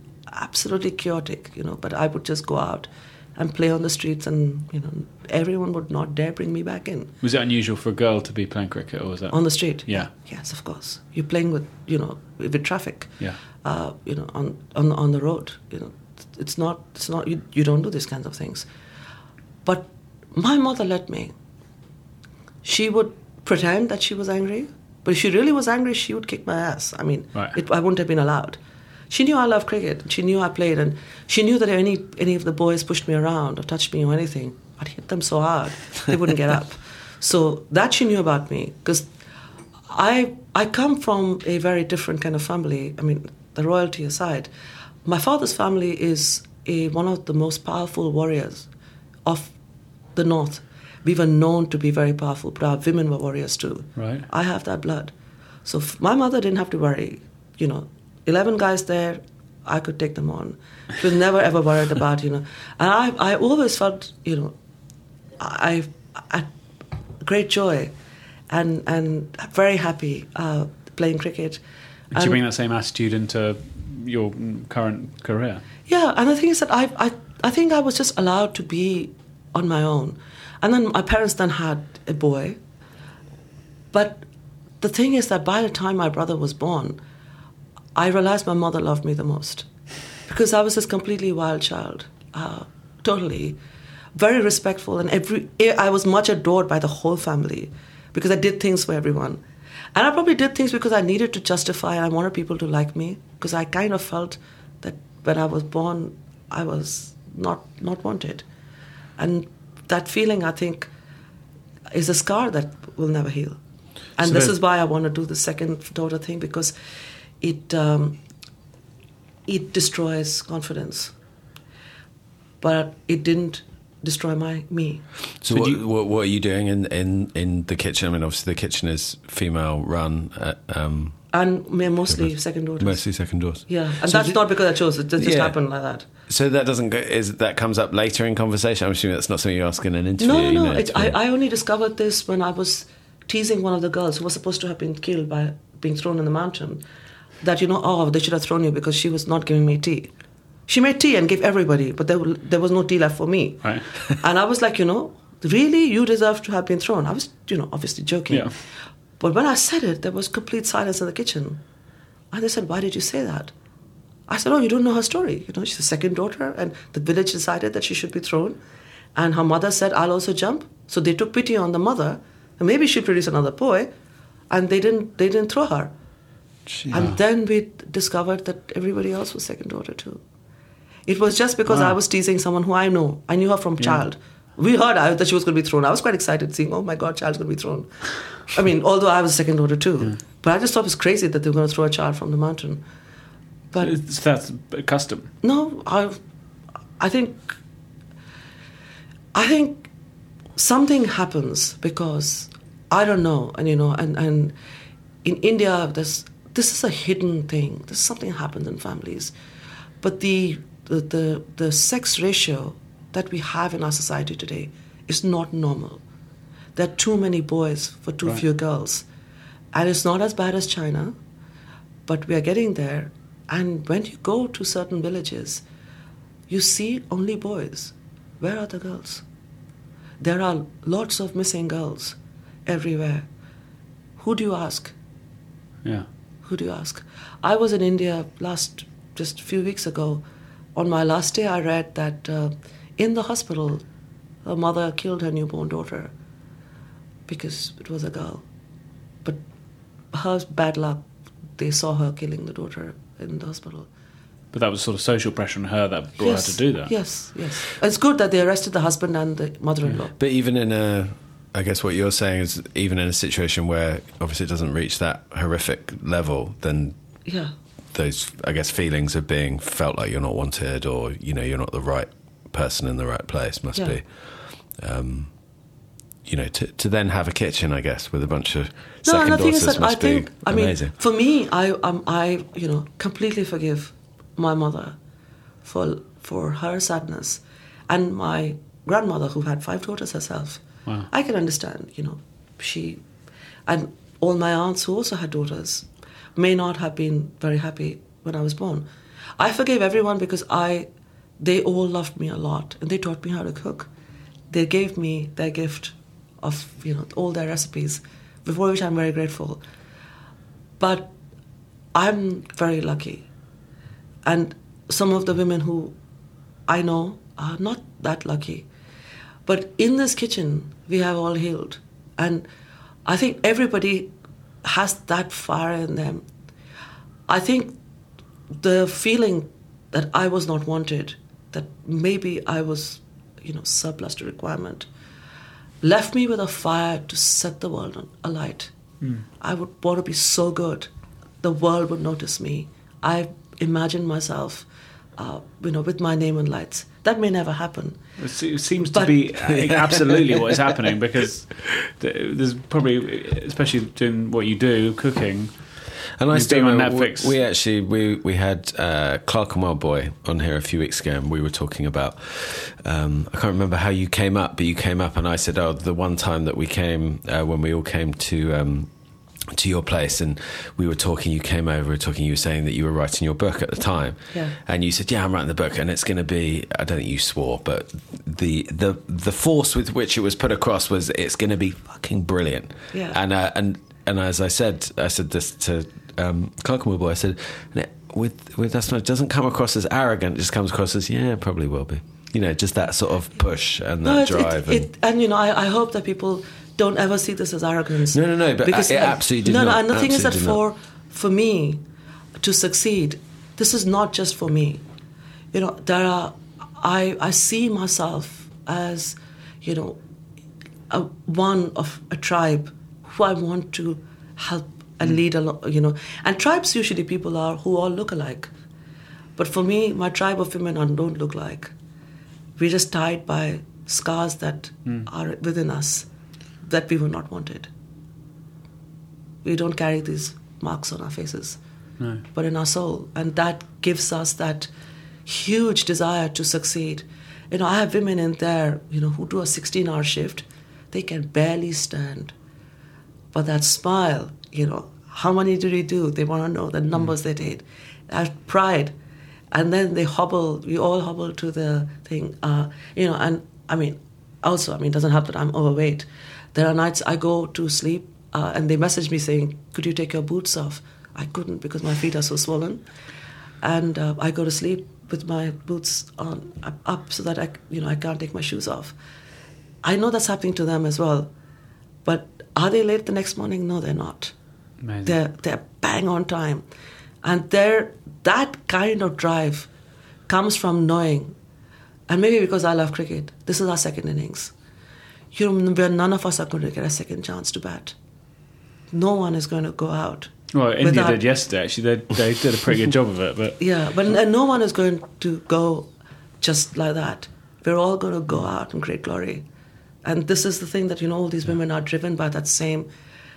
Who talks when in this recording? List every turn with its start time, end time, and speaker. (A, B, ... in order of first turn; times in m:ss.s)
0:00.3-0:07.1 A
0:07.2-0:10.1 B
0:09.3-0:18.7 A
0:19.6-0:21.3 A
0:22.6-0:28.6 A
0:29.1-0:39.1 A
0:39.9-0:44.5 A
0:45.0-0:48.7 A
0:49.2-0:49.5 A
0:50.2-0:55.1 A
0:54.0-0:54.3 B
0:55.6-1:04.6 A
1:05.4-1:06.5 A
1:07.2-1:07.9 A
1:08.5-1:11.6 A
1:12.1-1:15.6 B
1:12.1-1:12.4 A
1:15.9-1:22.6 A
1:23.9-1:24.2 A
1:24.8-1:27.0 A
1:28.0-1:29.7 A
1:30.3-1:33.6 A
1:34.2-1:39.4 A
1:39.9-1:48.4 A
1:49.2-1:50.9 A
1:51.9-1:53.6 A
1:54.2-1:56.7 A
1:54.2-1:54.5 B
1:57.4-1:58.2 A
1:59.5-2:01.1 A
2:02.6-2:05.0 A
2:05.4-2:11.2 C
2:05.5-2:05.8 B
2:11.3-2:13.0 A
2:12.1-2:14.4 C
2:13.7-2:16.1 A
2:15.2-2:15.6 C
2:16.3-2:21.2 C
2:20.2-2:26.8 A
2:27.4-2:30.1 A
2:30.7-2:38.5 A
2:39.2-2:41.6 A
2:42.3-2:43.5 A
2:44.3-2:48.6 A
2:49.2-2:53.9 A
2:54.5-2:55.9 A
2:56.9-3:00.2 A
3:01.1-3:07.9 A
3:01.7-3:02.0 B
3:08.5-3:12.8 A
3:13.7-3:14.0 A
3:13.8-3:15.3 B
3:15.4-3:16.2 A
3:17.0-3:17.6 A
3:19.3-3:19.9 A
3:20.6-3:24.6 A
3:25.2-3:29.3 A
3:30.0-3:36.0 A
3:36.8-3:39.0 A
3:39.7-3:41.2 A
3:42.1-3:45.6 A
3:46.5-3:49.2 A
3:50.2-3:53.3 A
3:54.2-3:54.9 A
3:56.4-4:00.2 A
4:00.8-4:03.8 A
4:04.4-4:06.1 A
4:07.3-4:08.4 A
4:10.1-4:11.0 A
4:11.6-4:13.9 A
4:14.5-4:16.9 B
4:16.2-4:20.1 A
4:20.2-4:27.0 C
4:27.3-4:27.5 A
4:27.9-4:34.1 C
4:34.8-4:35.3 C
4:36.3-4:40.9 C
4:39.0-4:45.0 A
4:45.6-4:53.0 A
4:53.7-4:58.9 A
4:59.4-5:00.9 A
5:01.4-5:03.9 A
5:04.5-5:09.6 A
5:10.8-5:11.1 A
5:11.9-5:13.2 A
5:14.2-5:15.9 A
5:16.7-5:18.7 A
5:19.5-5:22.5 A
5:23.0-5:24.1 A
5:24.6-5:26.2 A
5:27.3-5:27.8 A
5:28.6-5:34.9 A
5:35.8-5:38.7 A
5:39.4-5:40.9 A
5:41.4-5:48.0 A
5:48.2-5:55.5 B
5:48.9-5:49.2 A
5:49.5-5:50.2 C
5:56.2-6:08.9 C
5:56.3-5:57.4 B
6:09.5-6:34.9 C
6:22.9-6:23.2 A
6:34.0-6:41.8 A
6:38.1-6:40.6 C
6:42.4-6:44.8 A
6:45.5-6:50.0 A
6:50.9-6:58.5 A
6:59.4-7:01.7 A
7:02.6-7:06.1 A
7:06.6-7:07.7 A
7:09.4-7:11.6 A
7:12.3-7:14.7 A
7:15.3-7:22.3 A
7:23.3-7:28.9 A
7:29.5-7:42.8 A
7:43.6-7:49.0 A
7:49.8-7:51.3 A
7:52.0-7:54.3 A
7:54.8-7:55.2 B
7:55.0-7:56.6 A
7:57.2-7:59.7 A
8:00.3-8:01.4 A
8:02.1-8:04.5 A
8:05.3-8:08.0 A
8:08.9-8:11.2 A
8:10.5-8:13.6 B
8:13.6-8:15.9 A
8:16.4-8:19.4 A
8:20.0-8:22.9 A